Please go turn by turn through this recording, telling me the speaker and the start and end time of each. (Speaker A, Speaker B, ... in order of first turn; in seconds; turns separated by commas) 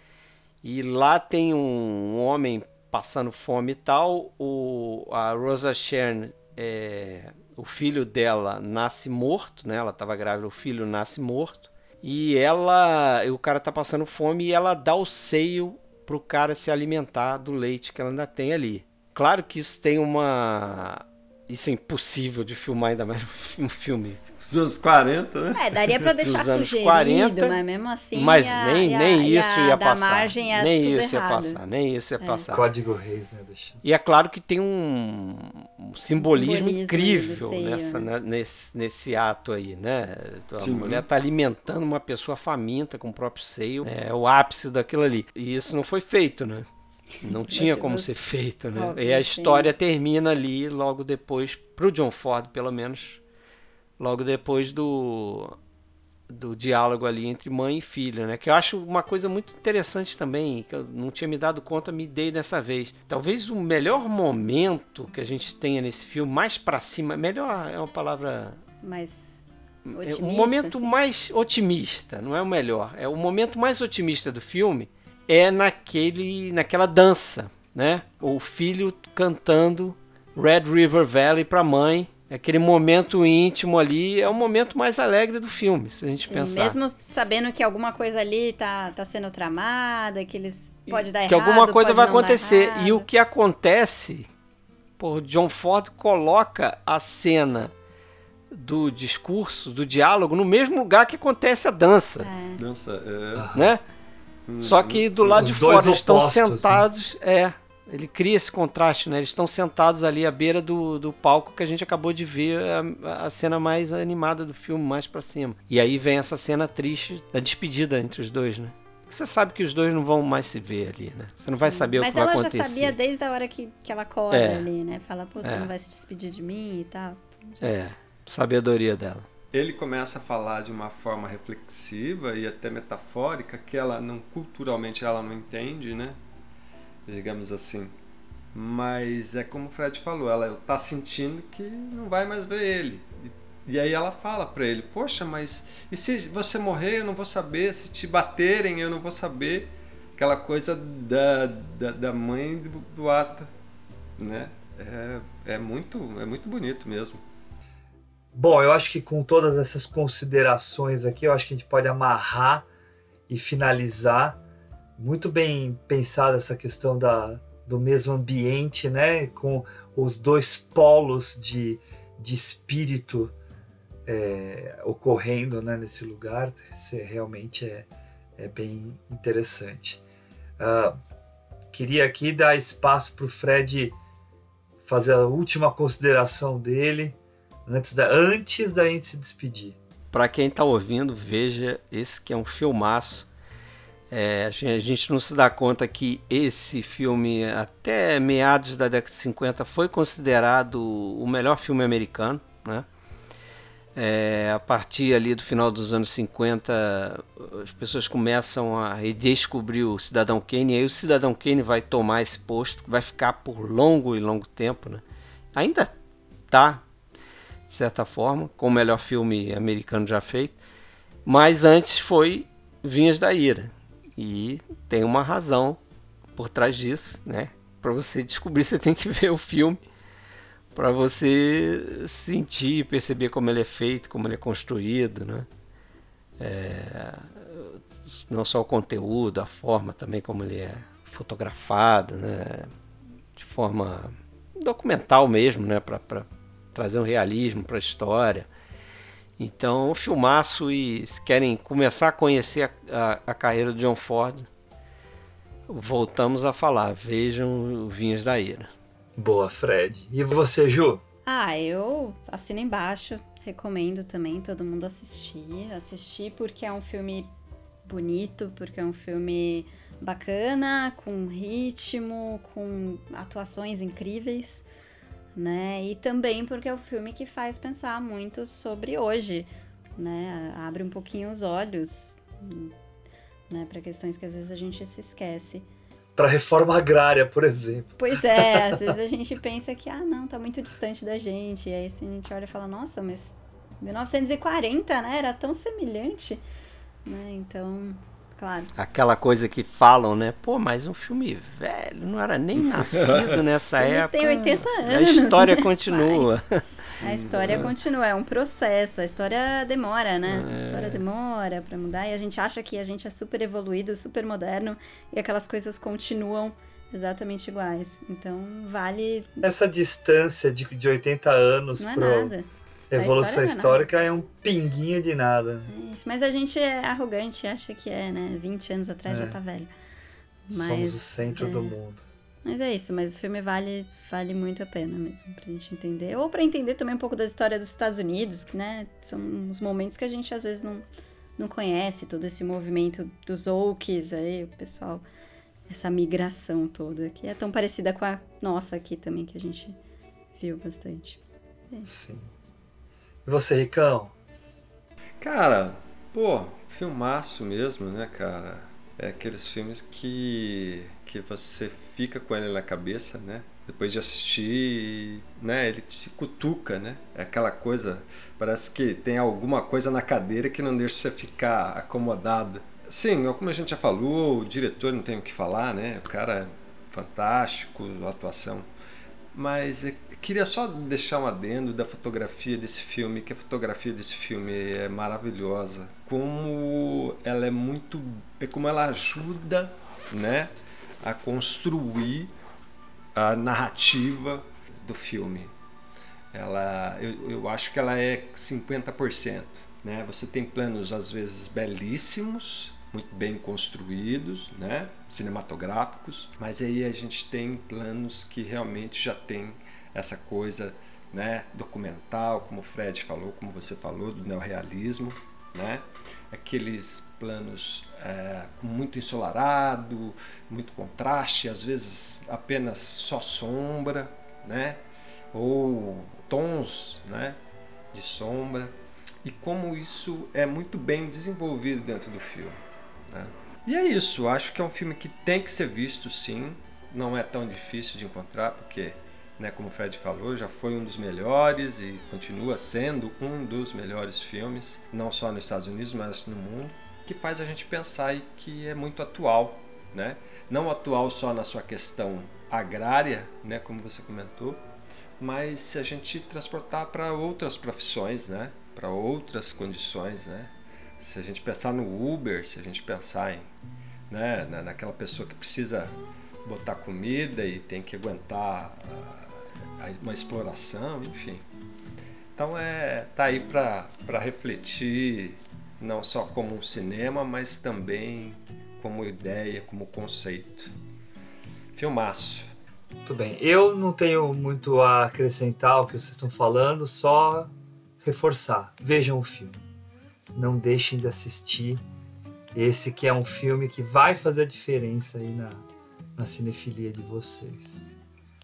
Speaker A: 0.6-24.2, Speaker B: 24.4-26.1, Speaker C: 25.5-31.6, Speaker A: 26.2-27.6, Speaker A: 28.1-32.6, Speaker C: 32.2-32.5, Speaker D: 32.5-33.8, Speaker A: 33.8-46.6, Speaker C: 36.2-38.1, Speaker B: 40.5-41.0, Speaker A: 47.2-53.2, Speaker C: 47.4-48.2, Speaker C: 48.7-49.7, Speaker A: 54.0-55.6, Speaker A: 56.3-68.6, Speaker C: 68.8-70.9, Speaker A: 69.9-86.8, Speaker C: 86.2-93.1, Speaker A: 90.9-94.3, Speaker A: 95.0-97.7, Speaker A: 98.5-102.3, Speaker C: 102.2-102.6, Speaker B: 102.6-103.5, Speaker D: 103.3-103.7, Speaker A: 103.5-103.8, Speaker B: 104.5-105.6, Speaker A: 104.6-122.9, Speaker D: 105.3-106.8, Speaker C: 121.5-127.7, Speaker A: 124.3-124.7, Speaker A: 125.4-125.7, Speaker A: 127.6-129.3, Speaker B: 129.5-136.2, Speaker B: 137.1-137.9, Speaker B: 138.5-153.5, Speaker B: 154.2-157.2, Speaker D: 158.3-162.7, Speaker D: 163.3-164.4, Speaker D: 165.0-173.3, Speaker D: 174.1-180.0, Speaker D: 180.6-180.9, Speaker D: 181.7-183.9, Speaker D: 184.8-189.8, Speaker A: 190.1-193.3, Speaker A: 194.1-202.8, Speaker A: 203.9-215.0, Speaker A: 215.6-215.9, Speaker A: 216.5-216.8, Speaker A: 217.7-220.6, Speaker A: 221.3-225.8, Speaker A: 226.3-229.8, Speaker A: 230.7-235.4, Speaker A: 236.4-242.7, Speaker A: 243.3-248.5, Speaker A: 249.4-254.5, Speaker A: 255.7-258.7, Speaker D: 259.2-261.0, Speaker C: 261.3-267.3, Speaker C: 267.9-274.6, Speaker C: 275.4-282.7, Speaker C: 283.5-285.6, Speaker D: 286.1-288.9, Speaker C: 288.0-296.4, Speaker C: 297.1-298.7, Speaker A: 298.8-306.6, Speaker B: 302.6-303.4, Speaker C: 303.8-306.4, Speaker C: 307.0-319.4, Speaker B: 307.0-307.7, Speaker A: 310.3-311.0, Speaker D: 319.4-322.3, Speaker C: 321.8-323.9, Speaker D: 322.9-325.7, Speaker C: 325.7-329.7, Speaker D: 329.1-329.4, Speaker C: 330.5-331.7, Speaker D: 330.5-332.0, Speaker C: 332.4-340.8, Speaker C: 341.4-345.0, Speaker C: 345.7-349.8, Speaker C: 350.4-351.9, Speaker D: 351.9-352.3, Speaker D: 353.2-354.1, Speaker B: 355.2-378.7, Speaker B: 379.3-390.5, Speaker B: 391.0-392.3, Speaker B: 393.1-395.5, Speaker B: 396.3-424.8, Speaker B: 425.3-427.4, Speaker B: 427.9-454.6, Speaker B: 455.2-463.5, Speaker B: 464.1-471.4, Speaker B: 472.4-480.7, Speaker B: 481.7-482.5, Speaker D: 483.1-487.5, Speaker D: 488.0-489.6, Speaker D: 490.3-491.8, Speaker D: 492.5-495.6, Speaker D: 496.1-497.9